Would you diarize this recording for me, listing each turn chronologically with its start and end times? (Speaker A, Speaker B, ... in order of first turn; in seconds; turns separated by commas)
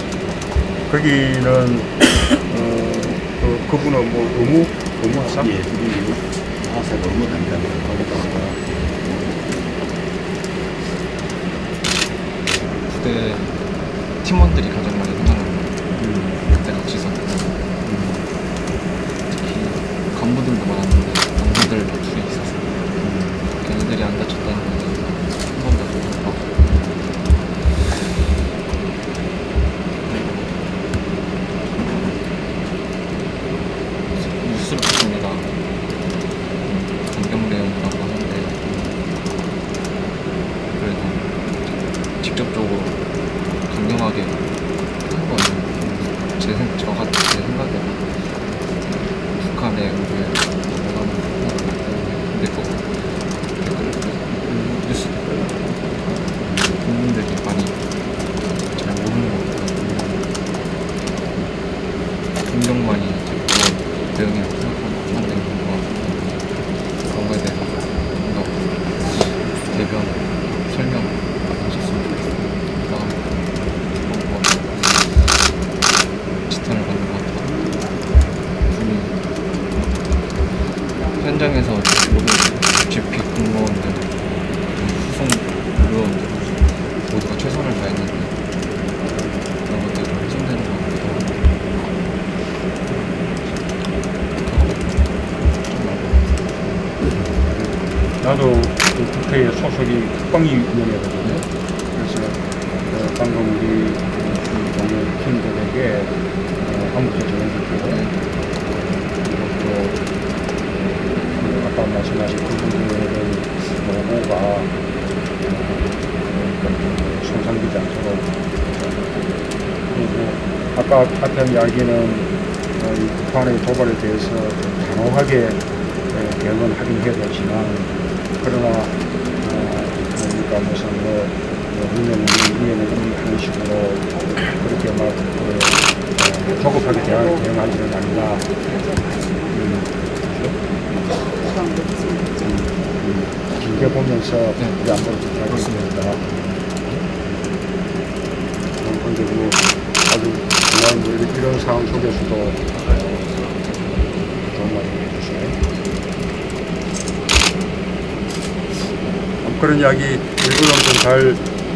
Speaker A: 0.9-5.5, Speaker B: 5.4-9.4, Speaker C: 12.8-13.6, Speaker C: 14.2-15.8, Speaker A: 16.0-16.3, Speaker C: 16.4-17.6, Speaker A: 17.9-18.2, Speaker C: 19.3-22.8, Speaker A: 23.0-23.4, Speaker C: 23.5-26.6, Speaker C: 34.1-35.5, Speaker C: 36.6-38.6, Speaker C: 40.7-43.0, Speaker C: 43.6-44.5, Speaker C: 45.0-57.8, Speaker A: 45.8-46.1, Speaker A: 56.4-56.7, Speaker C: 58.5-60.0, Speaker A: 59.8-60.2, Speaker C: 62.4-75.3, Speaker C: 76.5-77.6, Speaker C: 78.7-80.0, Speaker C: 80.6-88.4, Speaker C: 89.6-91.7, Speaker C: 92.9-93.7, Speaker C: 94.4-96.9, Speaker A: 97.5-108.0, Speaker C: 101.2-101.5, Speaker C: 107.8-108.2, Speaker A: 108.7-110.0, Speaker A: 111.2-114.7, Speaker A: 115.4-118.2, Speaker A: 119.9-125.6, Speaker A: 126.1-138.5, Speaker D: 138.5-139.5, Speaker A: 139.5-140.6, Speaker D: 141.3-142.3, Speaker A: 142.4-146.2, Speaker C: 144.6-144.8, Speaker C: 145.5-147.1, Speaker A: 148.8-153.2, Speaker A: 154.4-155.6, Speaker A: 159.4-161.4